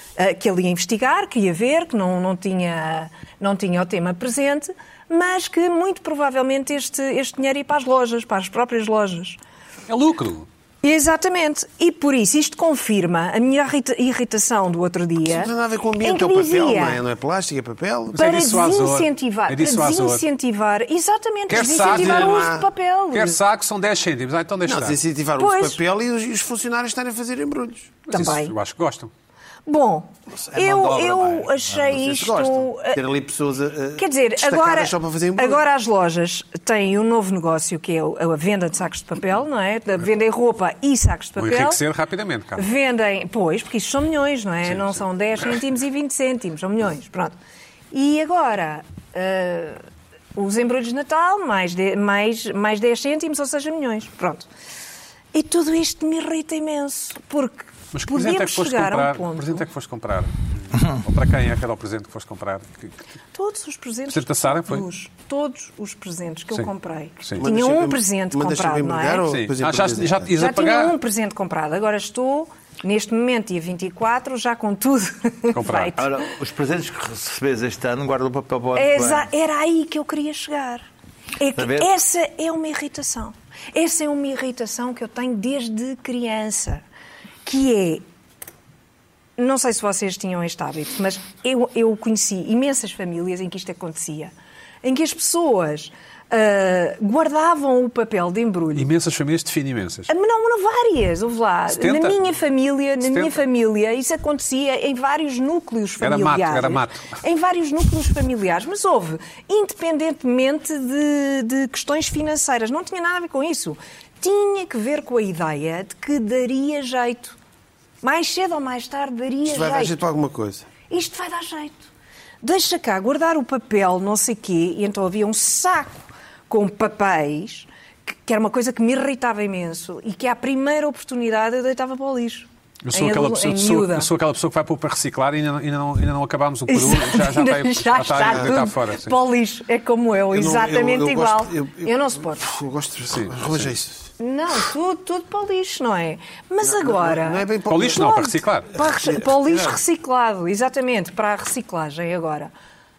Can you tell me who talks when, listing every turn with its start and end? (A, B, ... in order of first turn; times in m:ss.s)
0:00.2-0:09.4 A
0:09.9-0:10.5 B
0:10.8-0:17.0 A
0:15.2-0:18.2 C
0:18.1-0:20.2 B
0:18.1-0:23.4 A
0:21.5-0:22.5 B
0:21.5-0:22.7 C
0:23.1-0:25.0 B
0:24.6-0:28.0 C
0:25.4-0:25.8 A
0:28.1-0:28.5 A
0:28.1-0:29.1 B
0:29.6-0:33.0 A
0:30.4-0:35.6 C
0:34.0-0:41.8 A
0:41.4-0:42.7 B
0:42.6-0:47.3 A
0:44.7-0:45.0 B
0:47.9-0:49.8 A
0:50.3-0:54.5 A
0:55.3-0:59.6 A
0:57.9-1:03.0 B
1:03.3-1:09.3 A
1:04.1-1:04.8 B
1:07.4-1:10.3 C
1:09.2-1:11.0 B
1:10.4-1:16.2 A
1:15.5-1:16.0 B
1:16.0-1:19.3 D
1:18.7-1:20.8 A
1:21.4-1:26.8 A
1:21.6-1:21.9 D
1:27.4-1:28.0 A
1:29.4-1:38.9 A
1:38.7-1:40.1 B
1:40.1-1:57.4 A
1:41.7-1:42.3 B
1:43.0-1:43.3 B
1:46.0-1:47.2 B
1:58.0-2:00.0 A
1:59.5-2:00.7 C
2:00.9-2:01.9 A
2:02.4-2:14.1 A
2:12.8-2:19.1 B
2:16.7-2:22.5 A
2:18.2-2:18.6 C
2:20.3-2:24.1 C
2:23.1-2:23.7 B
2:24.2-2:32.5 A
2:26.6-2:28.1 C
2:27.7-2:28.7 B
2:28.8-2:29.8 C